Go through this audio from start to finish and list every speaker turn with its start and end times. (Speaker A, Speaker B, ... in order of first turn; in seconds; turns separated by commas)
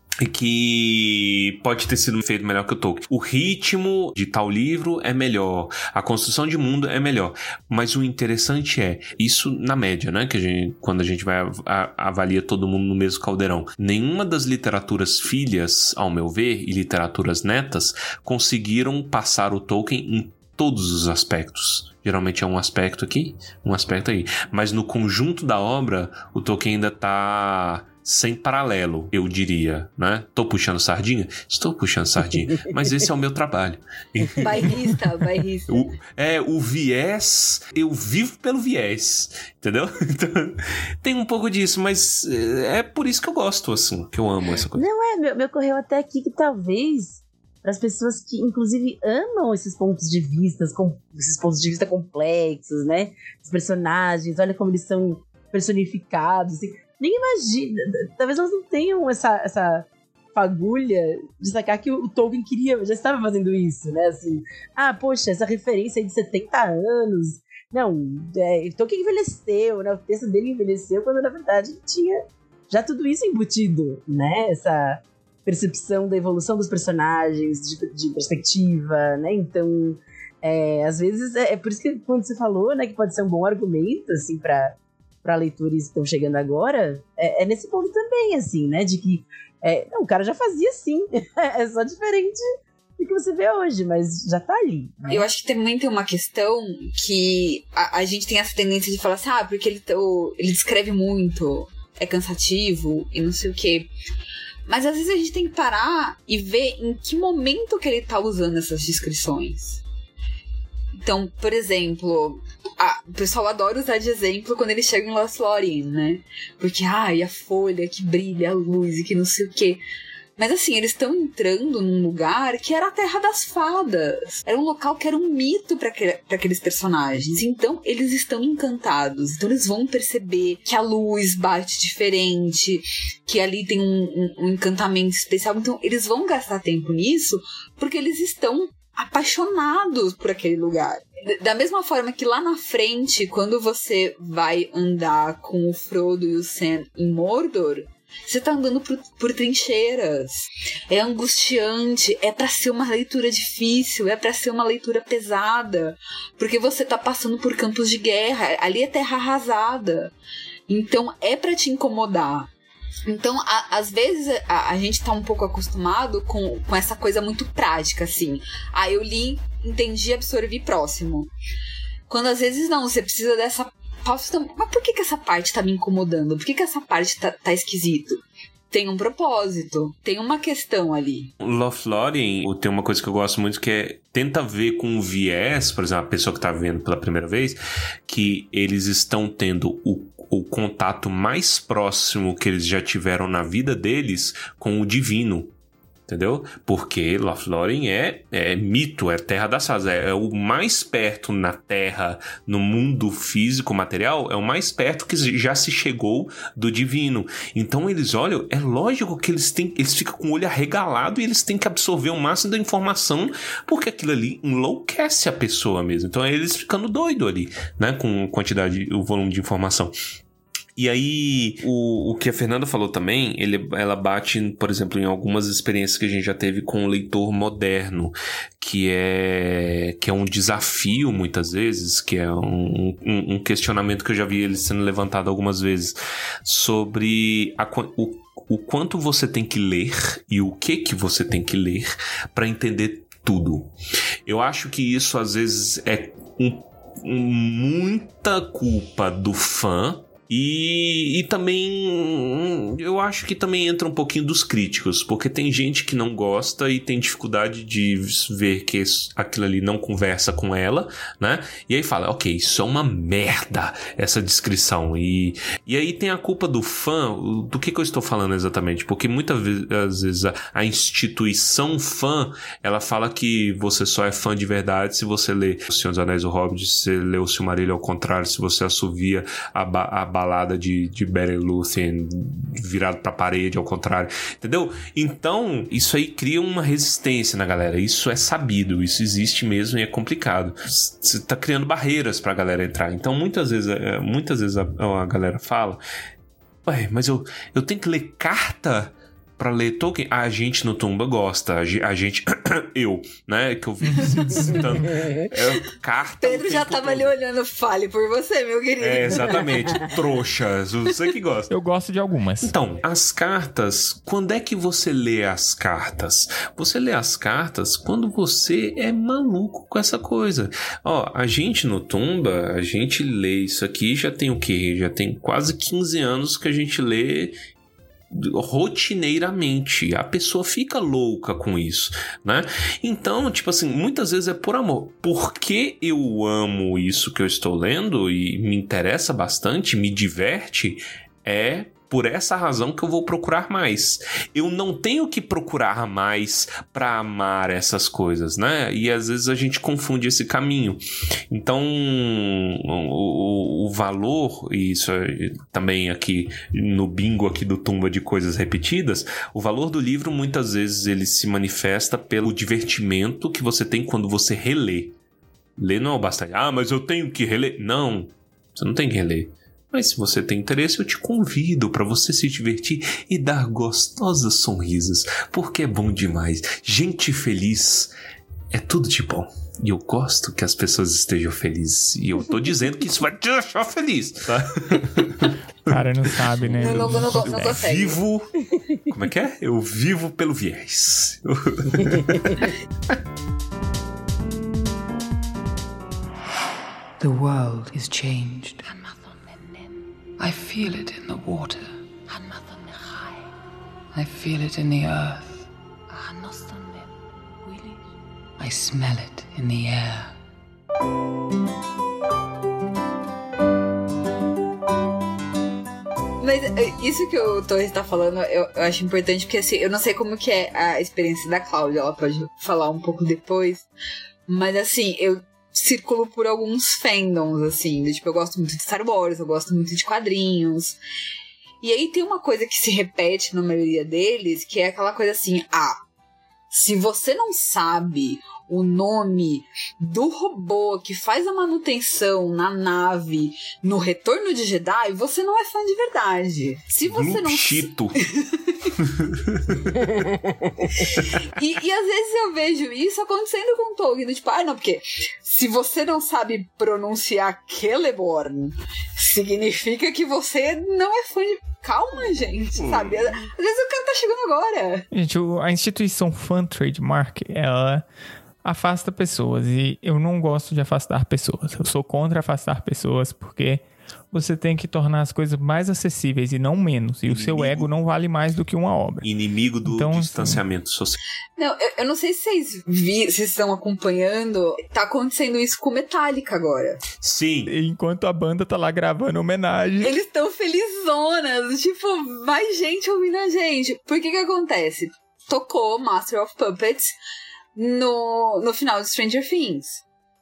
Speaker A: 0.2-35.0, Speaker B: 34.4-35.9, Speaker A: 35.7-44.9, Speaker C: 44.7-92.4, Speaker C: 93.0-95.3, Speaker B: 95.1-103.9, Speaker B: 104.7-109.8, Speaker B: 111.0-119.8, Speaker B: 120.4-160.1, Speaker B: 160.7-162.5, Speaker B: 163.1-171.3, Speaker B: 172.1-181.3, Speaker A: 181.4-195.5, Speaker A: 196.1-219.9, Speaker A: 220.8-243.7, Speaker A: 244.3-295.8, Speaker A: 296.6-307.1, Speaker B: 306.2-310.0, Speaker A: 308.8-311.5, Speaker D: 311.5-312.5, Speaker A: 312.4-327.3, Speaker A: 328.1-365.0, Speaker A: 365.6-377.9, Speaker A: 378.5-393.0, Speaker D: 385.7-387.6, Speaker B: 386.6-388.0, Speaker E: 397.0-399.3, Speaker E: 400.2-403.1, Speaker E: 403.9-406.8, Speaker E: 407.4-407.8, Speaker E: 408.4-410.2, Speaker B: 416.2-423.7, Speaker B: 424.3-430.8, Speaker B: 431.6-435.8, Speaker B: 436.5-448.7, Speaker A: 446.9-448.0, Speaker A: 448.8-449.9, Speaker B: 450.8-464.9, Speaker A: 451.0-451.2, Speaker A: 462.6-463.0, Speaker D: 464.9-467.9, Speaker D: 468.4-479.1, Speaker A: 477.1-477.7, Speaker A: 479.0-481.0, Speaker D: 479.6-480.4, Speaker B: 481.4-486.8, Speaker A: 487.0-487.5, Speaker D: 487.5-489.9, Speaker B: 489.8-497.0, Speaker B: 497.6-499.8